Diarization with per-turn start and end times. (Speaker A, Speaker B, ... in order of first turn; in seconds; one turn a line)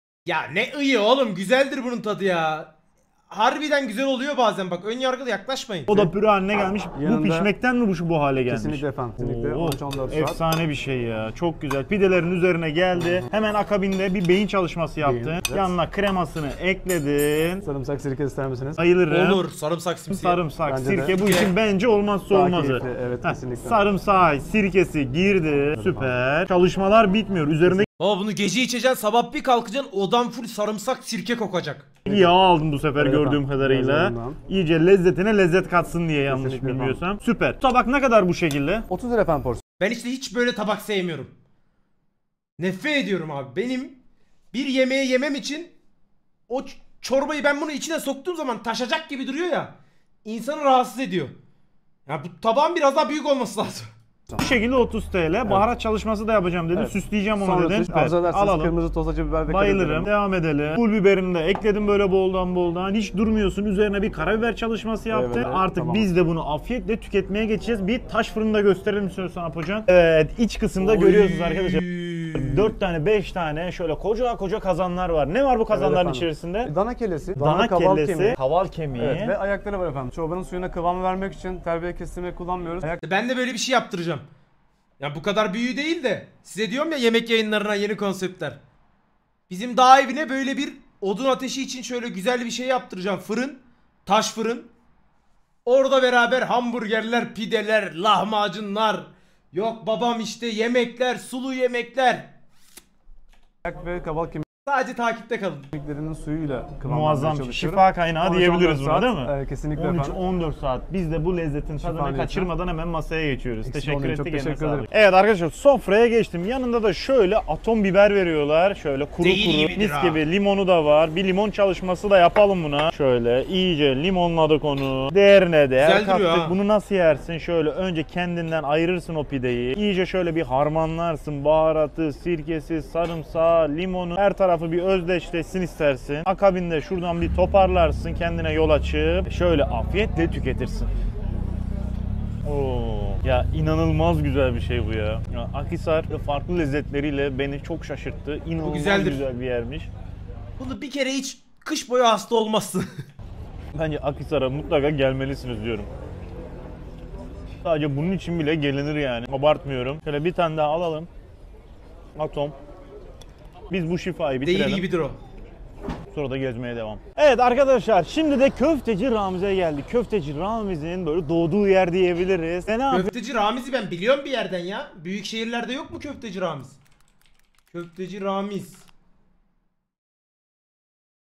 Speaker A: 0.3-2.7
Speaker A: 3.3-6.1
Speaker B: 5.9-17.6
Speaker C: 7.0-7.5
Speaker C: 8.5-10.4
Speaker C: 15.0-15.7
Speaker C: 17.6-18.8
Speaker B: 18.8-19.4
Speaker A: 19.1-20.4
Speaker B: 20.1-27.9
Speaker C: 20.7-21.1
Speaker A: 21.2-21.5
Speaker C: 22.3-23.8
Speaker C: 25.8-26.1
Speaker A: 28.0-31.9
Speaker B: 32.0-38.9
Speaker C: 32.1-32.3
Speaker C: 33.0-34.4
Speaker C: 36.3-37.0
Speaker C: 38.9-39.6
Speaker A: 39.8-41.3
Speaker A: 42.6-44.0
Speaker A: 44.5-45.7
Speaker A: 46.5-51.4
Speaker A: 52.1-53.9
Speaker B: 54.4-58.7
Speaker C: 56.7-60.1
Speaker B: 59.5-71.8
Speaker C: 65.1-66.1
Speaker A: 70.8-72.6
Speaker B: 72.3-76.7
Speaker C: 75.7-78.4
Speaker B: 77.4-79.3
Speaker C: 79.0-83.0
Speaker A: 83.0-84.3
Speaker A: 85.0-88.6
Speaker A: 89.5-94.7
Speaker A: 95.7-102.3
Speaker C: 103.7-104.5
Speaker A: 104.7-105.7
Speaker C: 105.7-110.2
Speaker B: 106.8-140.9
Speaker C: 111.8-112.5
Speaker C: 113.7-114.9
Speaker A: 119.2-120.2
Speaker A: 125.8-126.5
Speaker B: 142.4-149.9
Speaker A: 148.6-149.2
Speaker A: 150.6-153.0
Speaker B: 153.7-155.9
Speaker B: 157.6-161.1
Speaker B: 162.2-162.6
Speaker B: 163.7-164.9
Speaker A: 164.4-165.2
Speaker B: 166.1-173.1
Speaker A: 172.9-176.8
Speaker A: 177.7-178.8